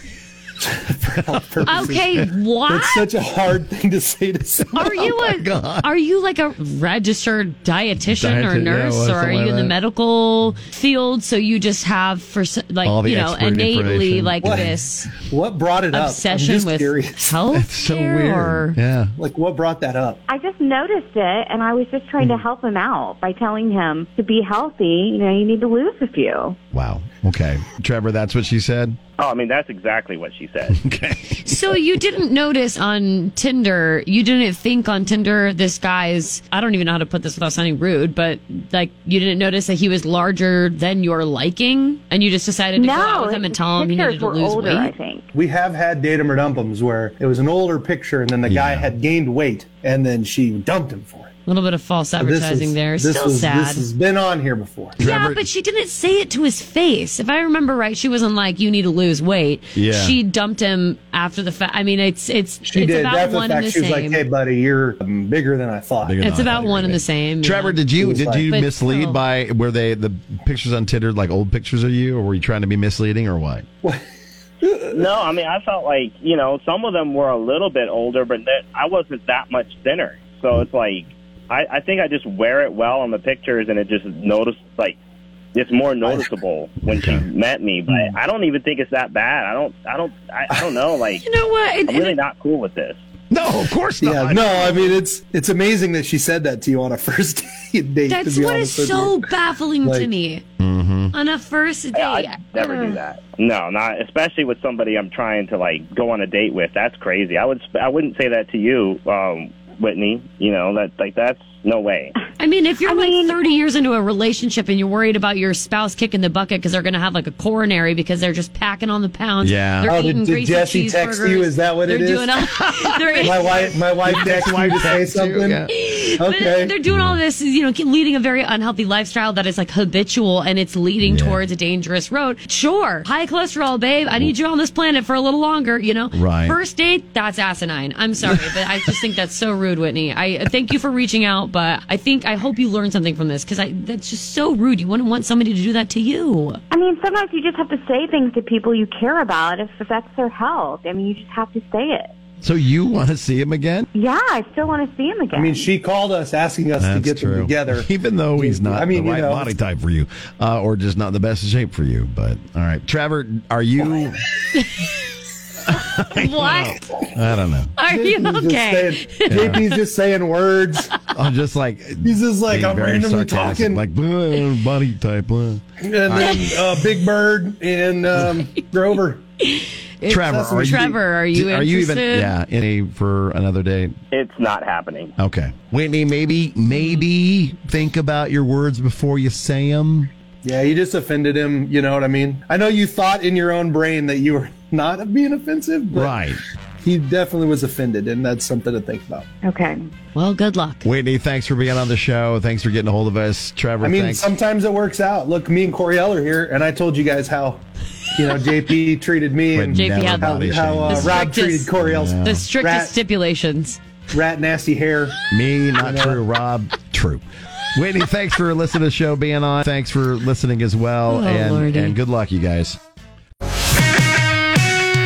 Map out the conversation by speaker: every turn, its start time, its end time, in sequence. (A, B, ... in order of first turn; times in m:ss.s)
0:00.6-0:04.8 A
0:01.6-0:03.0 B
0:04.7-0:15.2 B
0:04.8-0:05.9 C
0:08.1-0:09.7 C
0:12.8-0:14.7 C
0:14.4-0:17.4 A
0:15.9-0:18.8 B
0:17.5-0:19.1 C
0:19.2-0:20.2 A
0:20.3-0:26.6 D
0:26.7-0:29.0 C
0:29.2-0:30.8 E
0:30.7-0:31.8 C
0:31.4-0:44.9 B
0:42.8-0:45.3 D
0:45.3-0:51.3 A
0:48.5-0:48.9 C
0:51.5-0:53.8 B
0:52.2-0:55.0 A
0:55.0-0:55.5 C
0:55.0-1:04.2 B
0:59.8-1:00.2 C
1:02.6-1:06.2 A
1:06.0-1:13.7 C
1:06.2-1:07.8 B
1:08.0-1:08.5 A
1:08.5-1:09.2 B
1:14.6-1:15.1 A
1:14.9-1:25.0 E
1:25.5-1:31.2 E
1:26.8-1:27.2 C
1:31.2-1:32.2 B
1:31.9-1:33.0 E
1:33.3-1:35.0 C
1:34.0-1:39.3 A
1:38.1-1:40.4 B
1:39.8-1:40.1 A
1:40.6-1:41.1 C
1:41.1-1:43.0 B
1:42.0-1:52.2 E
1:52.4-2:05.0 B
1:52.8-1:53.4 D
1:59.4-1:59.9 C
1:59.9-2:02.4 A
2:03.2-2:05.6 A
2:04.0-2:05.7 C
2:05.7-2:26.6 B
2:06.2-2:06.8 A
2:06.9-2:07.2 C
2:11.0-2:11.4 C
2:16.1-2:16.6 C
2:26.7-2:32.1 D
2:32.4-2:33.9 C
2:34.0-2:35.7 D
2:35.3-2:39.5 A
2:36.8-2:44.2 C
2:44.6-2:44.9 B
2:45.7-2:46.9 B
2:45.7-2:47.7 C
2:47.8-2:49.6 B
2:47.9-2:50.9 A
2:49.3-2:49.6 C
2:51.1-2:56.4 C
2:52.0-2:53.8 A
2:55.8-2:59.2 A
2:56.3-2:56.6 B
2:59.4-3:02.3 B
3:00.1-3:01.0 A
3:00.1-3:03.9 C
3:04.1-3:05.1 E
3:05.2-3:10.1 C
3:10.4-3:16.2 A
3:15.9-3:16.4 C
3:16.8-3:19.3 A
3:19.4-3:19.8 D
3:20.2-3:20.9 B
3:20.8-3:24.3 C
3:23.8-3:27.6 A
3:28.2-3:33.0 A
3:29.5-3:31.2 C
3:29.7-3:31.7 B
3:31.8-3:32.5 C
3:32.2-3:33.8 B
3:34.1-3:35.2 A
3:35.3-3:37.2 C
3:35.8-3:36.2 A
3:37.8-3:42.8 C
3:41.1-3:42.0 B